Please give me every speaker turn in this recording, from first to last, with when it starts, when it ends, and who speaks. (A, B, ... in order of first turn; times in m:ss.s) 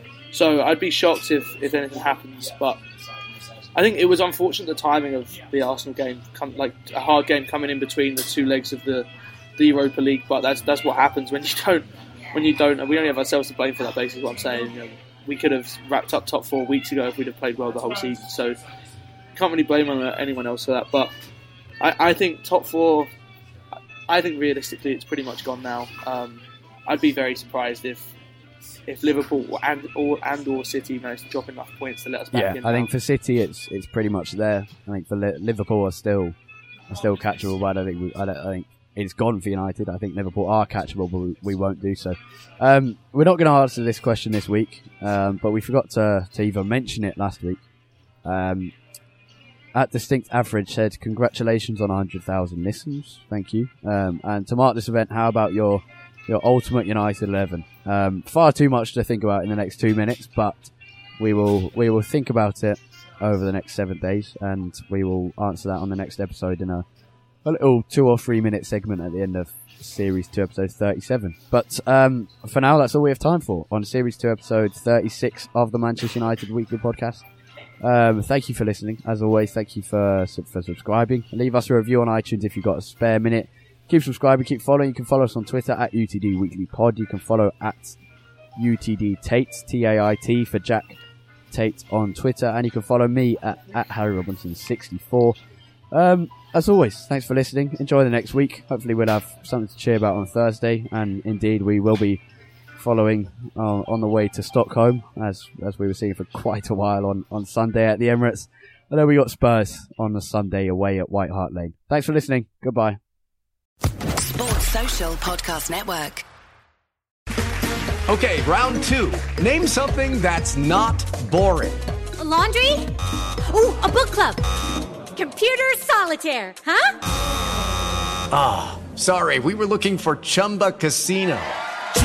0:00.3-0:02.8 A
0:03.8-0:09.1 A
0:09.6-0:18.6 A
0:19.4-0:21.1 A
0:21.8-0:23.1 A
0:24.1-0:28.1 A
0:28.9-0:32.9 A
0:32.3-0:36.4 B
0:36.9-0:47.6 B
0:48.2-0:48.7 B
0:49.7-1:06.8 B
1:07.4-1:17.2 B
1:17.8-1:28.0 B
1:28.6-1:31.0 B
1:31.5-1:35.4 B
1:35.9-1:42.2 B
1:42.8-1:53.0 B
1:54.2-1:56.2 C
1:58.1-2:01.8 D
2:02.2-2:02.9 E
2:03.4-2:04.4 E
2:05.1-2:07.0 E
2:08.3-2:11.6 D